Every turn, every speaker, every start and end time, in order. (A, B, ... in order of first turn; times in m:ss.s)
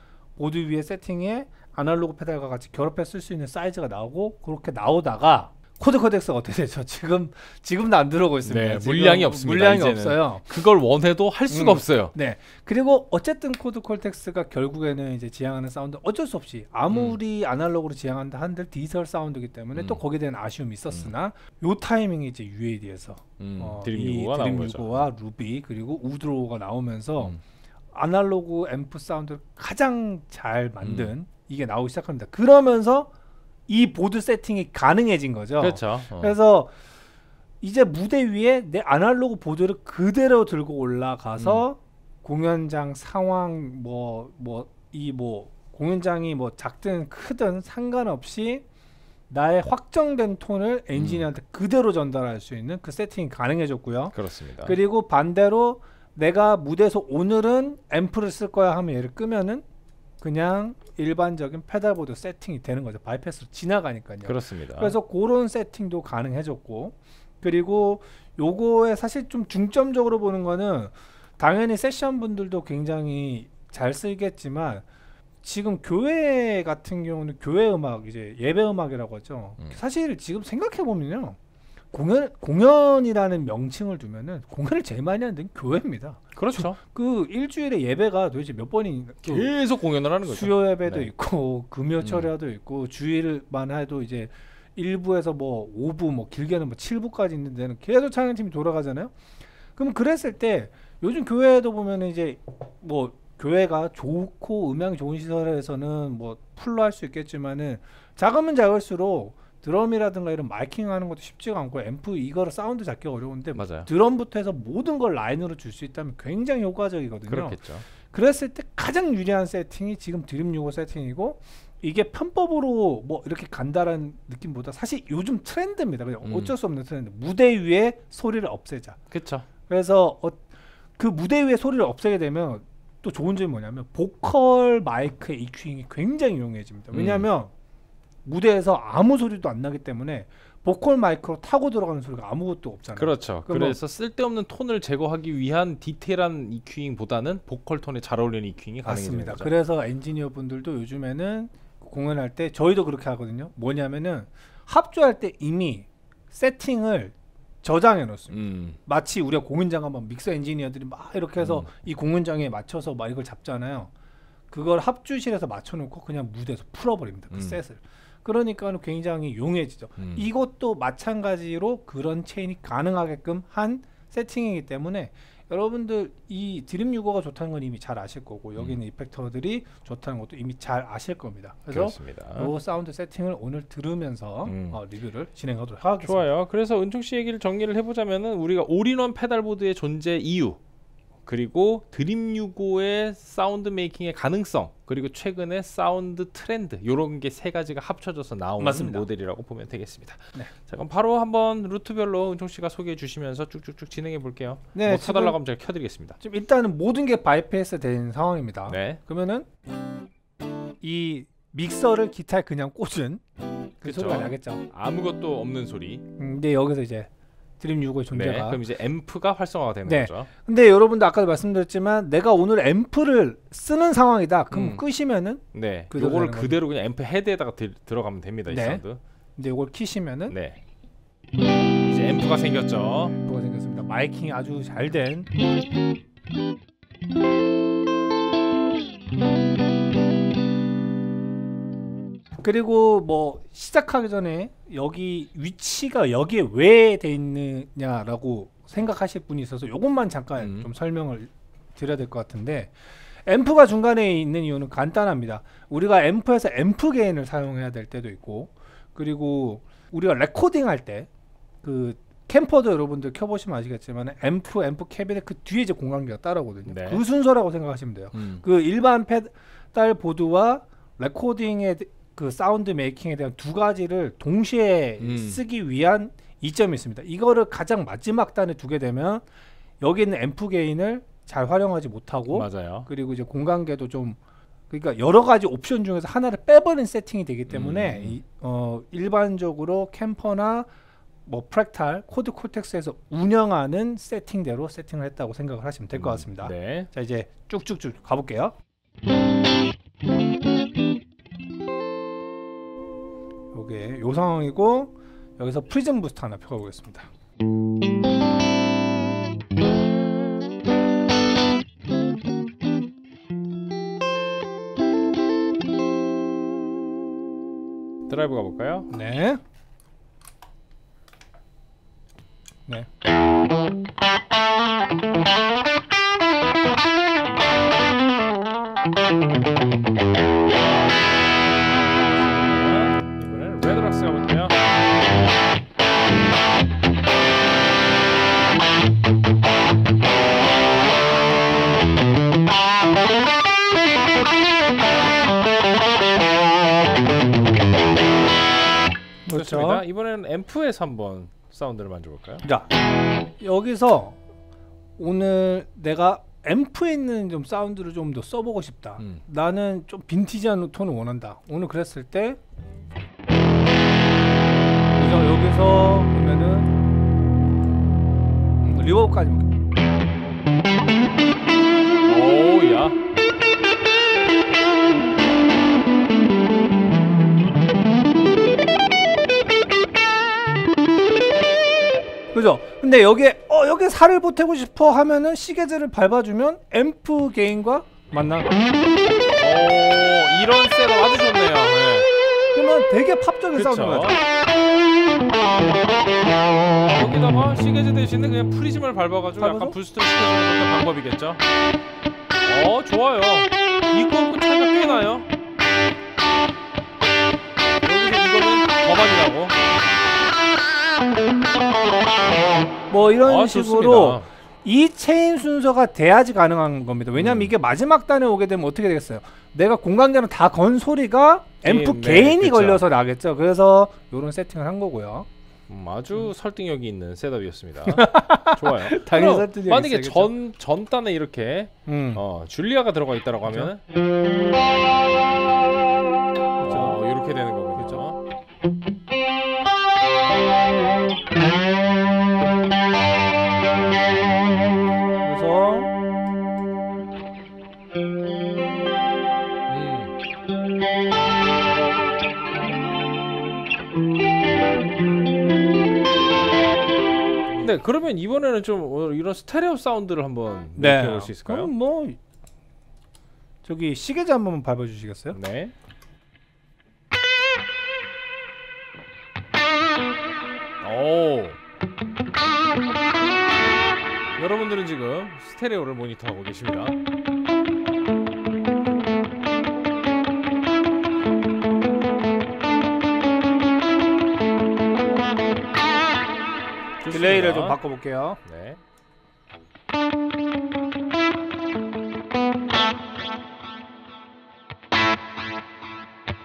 0:00.4-0:10.5 A
0:08.4-0:12.1 B
0:11.5-0:27.4 A
0:16.9-0:17.2 B
0:19.7-0:20.0 B
0:23.4-0:25.0 B
0:27.9-0:33.1 A
0:30.8-0:31.1 B
0:33.7-0:36.7 A
0:35.6-0:36.4 B
0:37.6-0:48.6 A
0:41.4-0:41.6 B
0:49.3-0:59.6 A
0:50.9-0:51.2 B
0:54.1-0:54.8 B
1:00.2-1:14.8 A
1:04.2-1:05.0 B
1:15.4-1:21.4 A
1:21.9-1:29.5 A
1:26.4-1:26.8 B
1:29.2-1:31.1 B
1:30.2-1:39.2 A
1:32.0-1:32.3 B
1:39.8-2:09.0 A
1:53.6-1:53.9 B
1:57.3-1:57.9 B
2:06.2-2:06.5 B
2:09.1-2:09.5 B
2:09.7-2:10.4 A
2:11.0-2:17.5 A
2:16.9-2:17.3 B
2:18.2-2:23.8 A
2:23.0-2:29.5 B
2:28.8-2:43.9 A
2:38.3-2:38.8 B
2:41.4-2:41.7 B
2:44.5-3:06.2 A
2:47.3-2:47.6 B
2:50.0-2:50.3 B
3:01.7-3:02.5 B
3:04.5-3:04.8 B
3:06.0-3:10.6 B
3:11.3-3:26.2 B
3:18.6-3:19.1 A
3:24.7-3:25.4 A
3:26.2-3:29.5 A
3:28.7-3:29.0 B
3:30.8-3:33.2 A
3:33.8-3:34.6 A
3:33.8-3:36.0 B
3:36.2-3:38.6 A
3:38.1-3:40.3 B
3:39.9-3:46.6 A
3:44.5-3:44.8 B
3:45.5-3:49.0 B
3:48.5-3:48.8 A
3:49.4-3:50.4 A
3:50.3-3:50.6 B
3:51.9-3:53.2 B
3:53.2-3:55.3 A
4:02.4-4:21.1 A
4:10.4-4:10.7 B
4:21.6-4:39.3 A
4:26.7-4:27.0 B
4:28.1-4:28.4 B
4:35.0-4:35.4 B
4:39.8-4:44.2 A
4:42.3-4:42.9 B
4:44.7-4:50.7 A
4:47.5-4:48.2 B
4:51.3-4:58.6 A
4:55.9-4:56.9 B
5:03.5-5:07.1 A
5:18.1-5:18.9 B
5:18.9-5:19.4 A
5:31.9-5:34.6 B
5:49.2-5:49.8 A
5:49.3-5:52.5 B
5:52.4-5:52.7 A
5:53.4-5:54.2 A
5:55.0-6:02.4 A
6:05.0-6:06.7 A
6:08.6-6:09.5 A
6:12.0-6:13.0 B
6:22.3-6:28.5 A
6:29.4-6:32.1 B
6:32.5-6:34.2 A
6:33.5-6:34.2 B
6:36.8-6:41.4 B
6:39.4-6:39.8 A
6:42.4-6:45.3 B
6:47.8-6:49.6 B
6:52.9-7:05.3 A
6:53.2-6:54.3 B
6:57.2-6:57.5 B
7:01.6-7:02.8 B
7:05.7-7:13.8 B
7:07.9-7:10.3 A
7:11.9-7:12.2 A
7:16.6-7:17.0 A
7:16.7-7:18.2 B
7:25.2-7:25.9 A
7:29.7-7:30.1 B
7:37.6-7:41.7 B
7:40.8-7:42.2 A
7:43.6-7:45.4 A
7:45.3-7:45.7 B
7:50.8-7:51.6 B
7:54.4-7:57.0 B
8:07.0-8:07.8 B
8:07.1-8:08.4 A
8:08.4-8:08.8 B